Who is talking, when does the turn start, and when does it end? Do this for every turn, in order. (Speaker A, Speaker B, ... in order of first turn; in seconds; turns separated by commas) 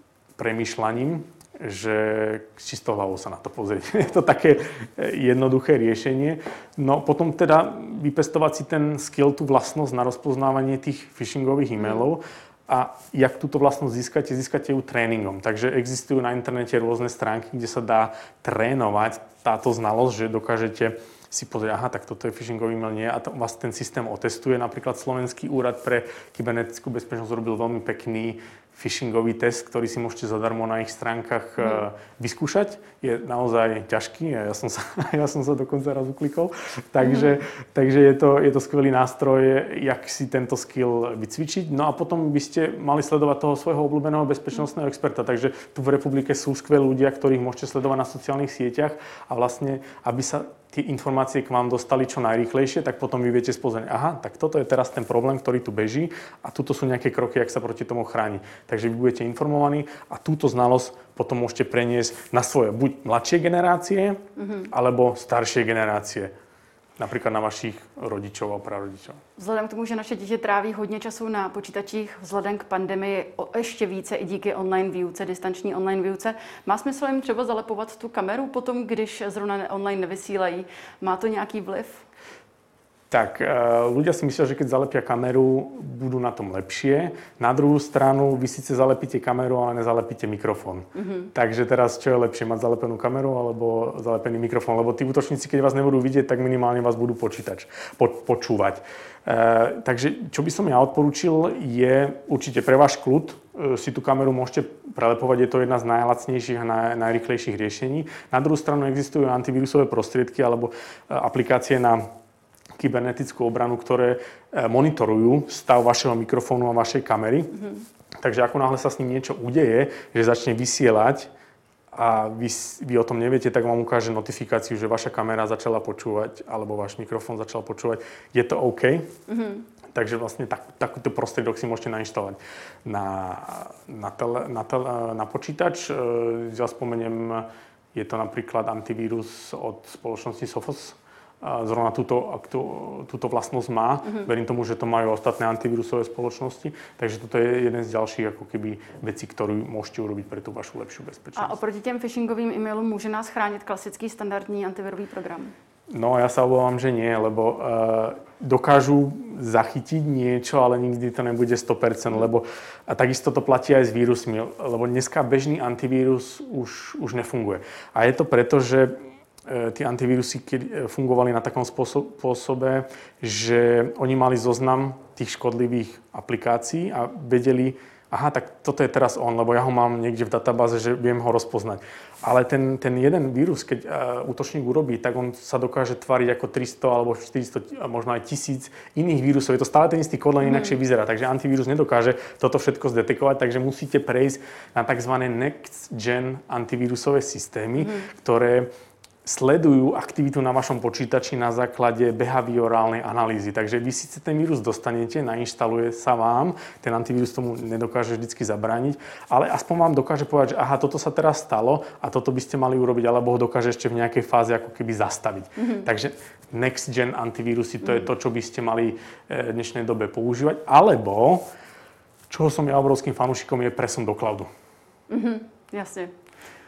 Speaker A: 0.4-66.3, Speaker B: 11.8-12.1, Speaker B: 37.0-37.4, Speaker B: 64.4-64.7, Speaker A: 67.0-69.2, Speaker B: 69.4-82.0, Speaker A: 83.1-112.0, Speaker B: 90.9-91.3, Speaker A: 112.8-117.7, Speaker A: 118.2-121.3, Speaker A: 121.9-129.1, Speaker B: 129.3-129.7, Speaker A: 129.9-151.6, Speaker B: 151.3-155.5, Speaker A: 155.9-198.7, Speaker B: 190.4-190.8, Speaker B: 197.8-198.1, Speaker A: 199.2-221.4, Speaker B: 215.6-215.9, Speaker A: 222.3-224.5, Speaker B: 225.1-226.1